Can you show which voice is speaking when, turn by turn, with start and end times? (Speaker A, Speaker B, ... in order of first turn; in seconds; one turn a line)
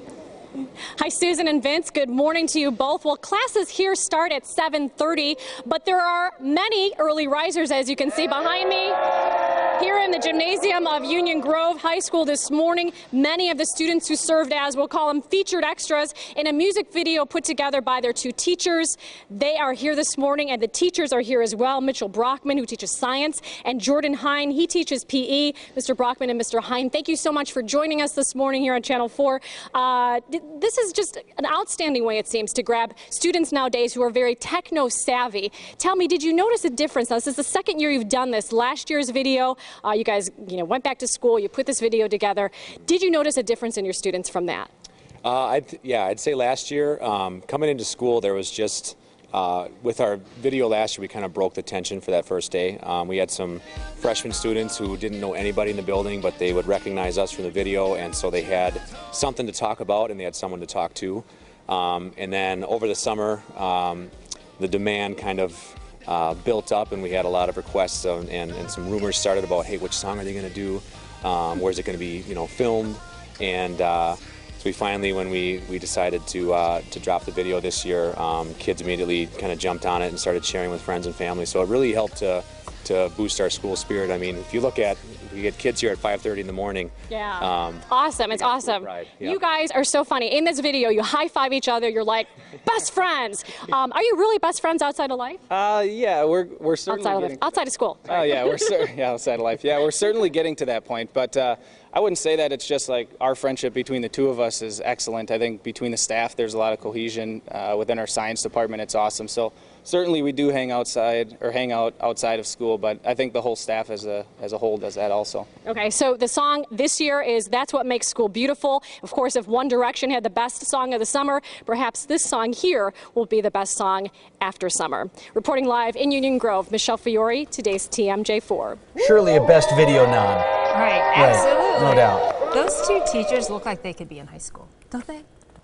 Speaker A: 1.0-9.0
Speaker A: 9.8-44.7
Speaker B: 45.2-89.4
Speaker A: 87.1-95.4
Speaker C: 95.5-115.5
Speaker A: 96.9-98.6
Speaker A: 115.6-128.8
Speaker D: 128.9-130.4
Speaker E: 130.7-135.2
Speaker D: 131.1-132.3